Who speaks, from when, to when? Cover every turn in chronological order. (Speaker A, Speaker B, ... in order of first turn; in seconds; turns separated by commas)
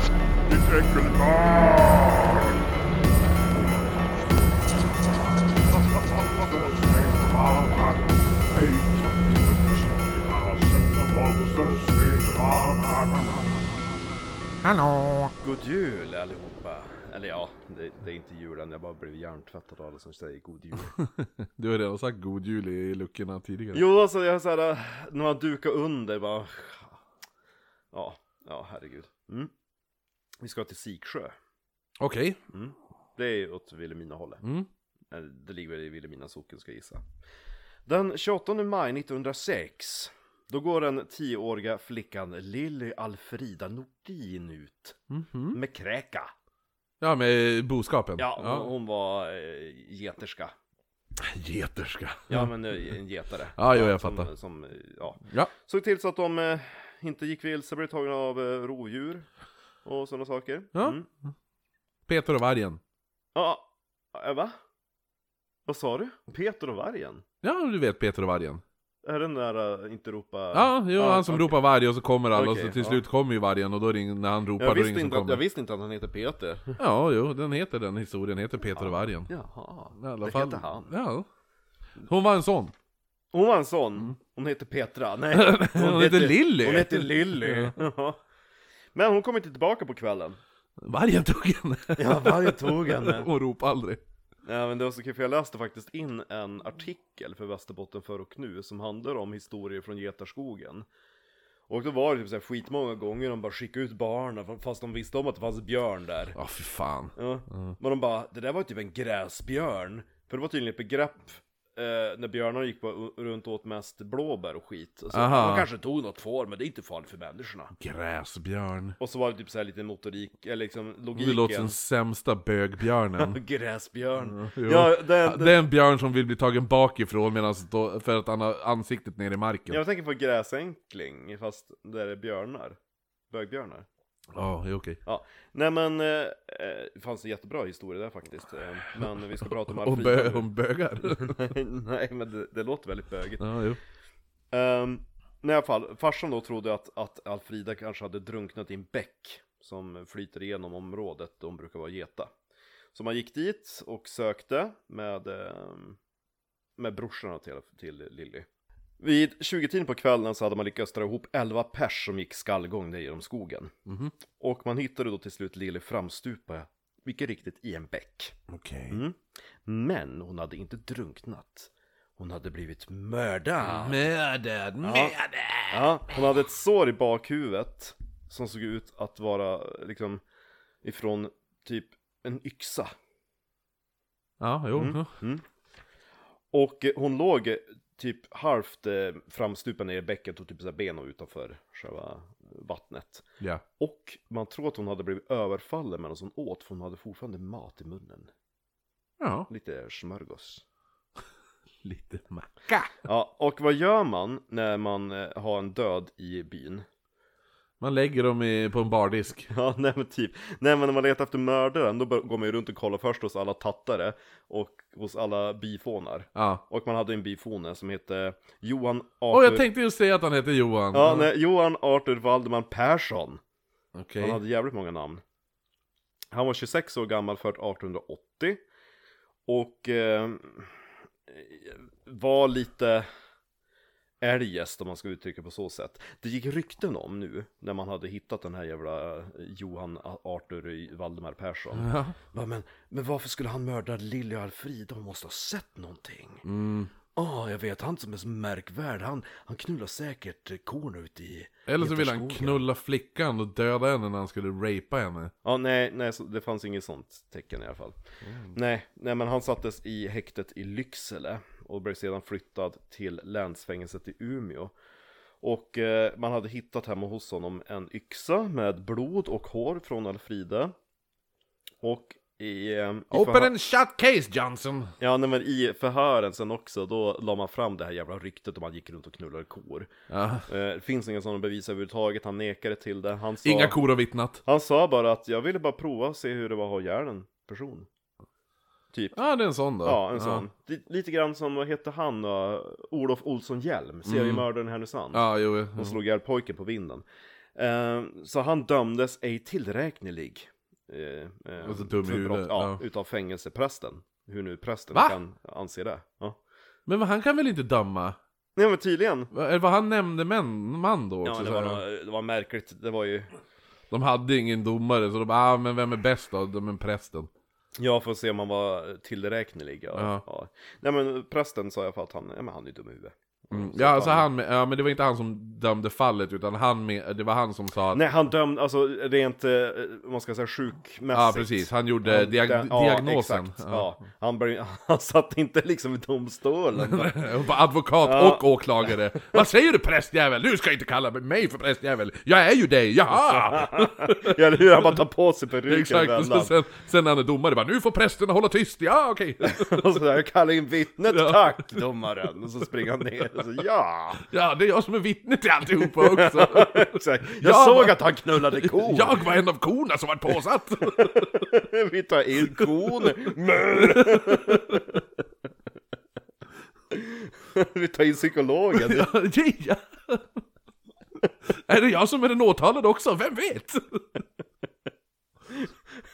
Speaker A: 0.5-2.7, Speaker A: 6.0-13.4, Speaker B: 14.6-15.3, Speaker C: 15.4-20.9, Speaker B: 20.9-23.8, Speaker C: 23.7-27.0, Speaker C: 27.9-29.5, Speaker C: 30.4-31.3, Speaker B: 32.0-32.4, Speaker C: 32.5-34.4, Speaker B: 34.4-34.7, Speaker C: 35.1-37.0, Speaker C: 37.9-45.0, Speaker B: 45.1-45.6, Speaker C: 45.5-46.3, Speaker B: 47.0-48.7, Speaker C: 48.2-50.5, Speaker B: 51.2-52.5, Speaker C: 52.3-59.3, Speaker B: 53.6-54.3, Speaker C: 59.8-61.1, Speaker B: 60.7-61.3, Speaker B: 62.1-62.8, Speaker C: 63.4-64.5, Speaker C: 65.7-67.2, Speaker B: 67.4-68.6, Speaker C: 69.0-71.6, Speaker B: 70.5-75.4, Speaker C: 72.3-73.0, Speaker C: 74.6-76.8, Speaker B: 76.8-79.3, Speaker C: 78.7-80.9, Speaker B: 80.0-81.3, Speaker B: 82.0-82.7, Speaker C: 83.3-88.2, Speaker B: 85.3-87.8, Speaker C: 88.9-90.4, Speaker B: 90.8-94.0, Speaker C: 92.0-93.3, Speaker C: 94.5-100.9, Speaker C: 101.7-106.4, Speaker B: 106.3-107.8, Speaker C: 107.2-117.7, Speaker B: 115.1-115.7, Speaker B: 117.7-119.0, Speaker C: 119.0-121.8, Speaker B: 121.2-123.4, Speaker C: 123.2-125.6, Speaker B: 124.2-129.8, Speaker C: 129.7-132.8, Speaker C: 133.3-133.9, Speaker B: 134.3-135.0, Speaker C: 135.1-140.5, Speaker B: 139.7-141.4, Speaker C: 141.0-143.4, Speaker B: 143.4-143.8, Speaker C: 144.5-152.3, Speaker C: 152.9-156.0, Speaker C: 156.8-158.5, Speaker C: 159.0-163.7, Speaker B: 163.9-164.1, Speaker C: 164.4-168.4, Speaker B: 168.5-169.0, Speaker C: 168.9-174.0, Speaker B: 173.6-175.9, Speaker C: 174.8-175.2, Speaker C: 175.7-180.2, Speaker C: 180.8-182.9, Speaker B: 184.4-185.1, Speaker C: 184.7-185.4, Speaker C: 186.5-193.3, Speaker C: 193.8-198.3, Speaker B: 199.2-199.5, Speaker C: 199.5-200.6, Speaker B: 201.8-203.0, Speaker C: 203.1-206.8, Speaker B: 207.8-209.5, Speaker C: 209.5-219.7, Speaker B: 216.3-216.6, Speaker B: 219.3-221.3, Speaker C: 220.9-223.4, Speaker B: 223.9-224.4, Speaker C: 224.2-225.2, Speaker C: 226.3-228.6, Speaker C: 229.5-230.7, Speaker C: 231.3-233.1, Speaker C: 234.2-246.4, Speaker B: 241.8-242.2, Speaker B: 246.4-246.9, Speaker C: 247.2-252.6, Speaker B: 251.7-255.3, Speaker C: 255.4-258.0, Speaker B: 258.2-258.5, Speaker C: 258.5-264.7, Speaker C: 265.4-270.7, Speaker C: 271.8-273.5, Speaker B: 273.1-274.9, Speaker C: 275.0-279.9, Speaker B: 280.1-280.5, Speaker C: 280.5-283.8, Speaker B: 283.4-284.4, Speaker C: 284.4-287.9, Speaker C: 288.9-289.2, Speaker B: 289.1-290.5, Speaker C: 289.8-306.4, Speaker B: 294.1-294.4, Speaker B: 295.1-296.0, Speaker B: 301.6-302.8, Speaker B: 304.9-305.2, Speaker B: 306.9-308.2, Speaker C: 308.6-309.3, Speaker B: 309.3-311.8, Speaker C: 311.2-313.3, Speaker B: 313.9-317.3, Speaker C: 317.8-324.3, Speaker B: 319.9-320.2, Speaker B: 323.5-328.0, Speaker C: 327.9-337.4, Speaker B: 331.1-333.9, Speaker B: 336.8-344.9, Speaker C: 338.0-339.4, Speaker C: 343.1-346.6, Speaker B: 345.7-349.8, Speaker C: 349.4-354.3, Speaker B: 351.1-351.6, Speaker B: 354.2-361.3, Speaker C: 355.9-359.3, Speaker C: 360.8-365.0, Speaker B: 362.4-364.8, Speaker C: 366.9-369.1, Speaker B: 368.7-370.3, Speaker B: 371.5-374.0